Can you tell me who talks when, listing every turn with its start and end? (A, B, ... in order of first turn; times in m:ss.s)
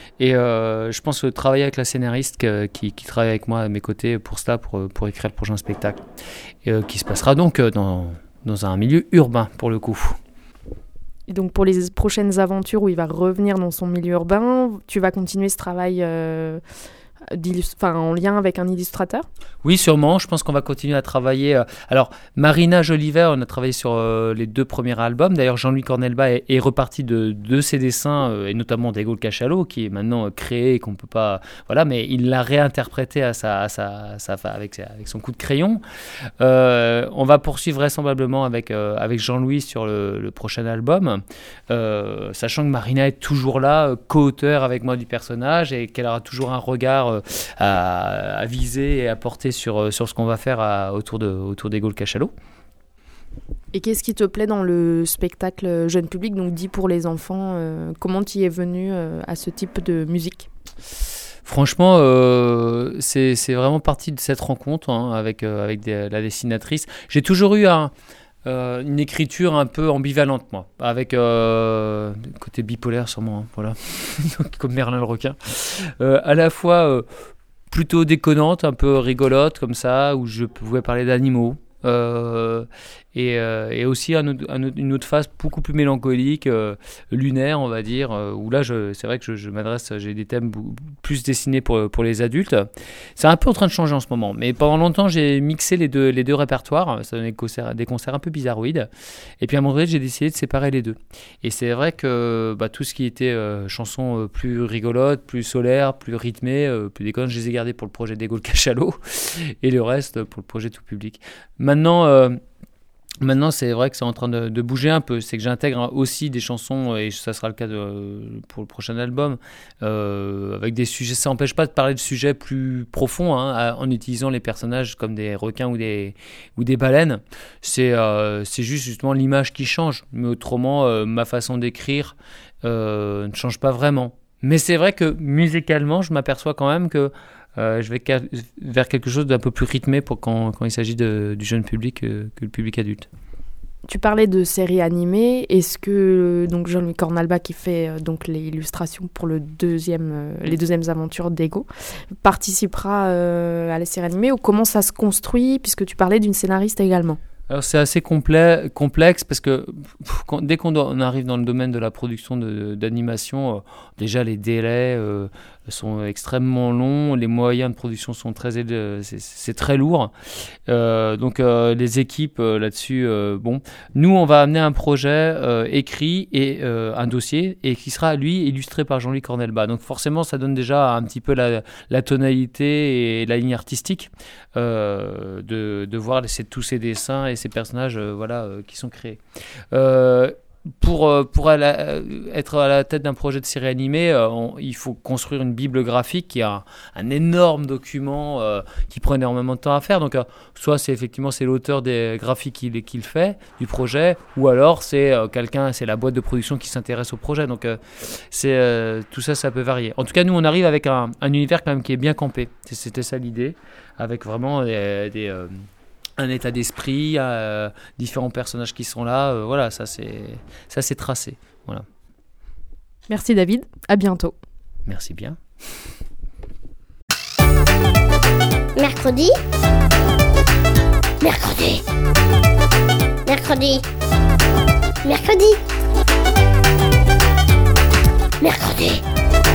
0:00.2-0:06.0 A
0:06.6-0:10.2 A
0:11.3-0:16.6 B
0:17.3-0:19.3 B
0:19.6-0:35.8 A
0:36.4-0:52.3 A
0:53.7-1:00.5 B
1:01.4-1:07.9 A
1:08.4-1:17.0 A
1:17.7-1:38.9 A
1:39.4-1:52.4 A
1:53.2-2:23.1 A
2:23.9-2:31.7 B
2:32.2-2:37.2 B
2:37.5-2:50.1 A
2:50.7-3:09.2 A
3:09.7-3:35.6 A
3:36.2-3:41.9 A
3:43.1-3:44.4 B
3:44.9-3:45.4 A
3:48.8-3:49.3 C
3:51.2-3:51.8 C
3:53.3-3:53.9 C
3:55.0-3:55.6 C
3:58.4-3:59.0 C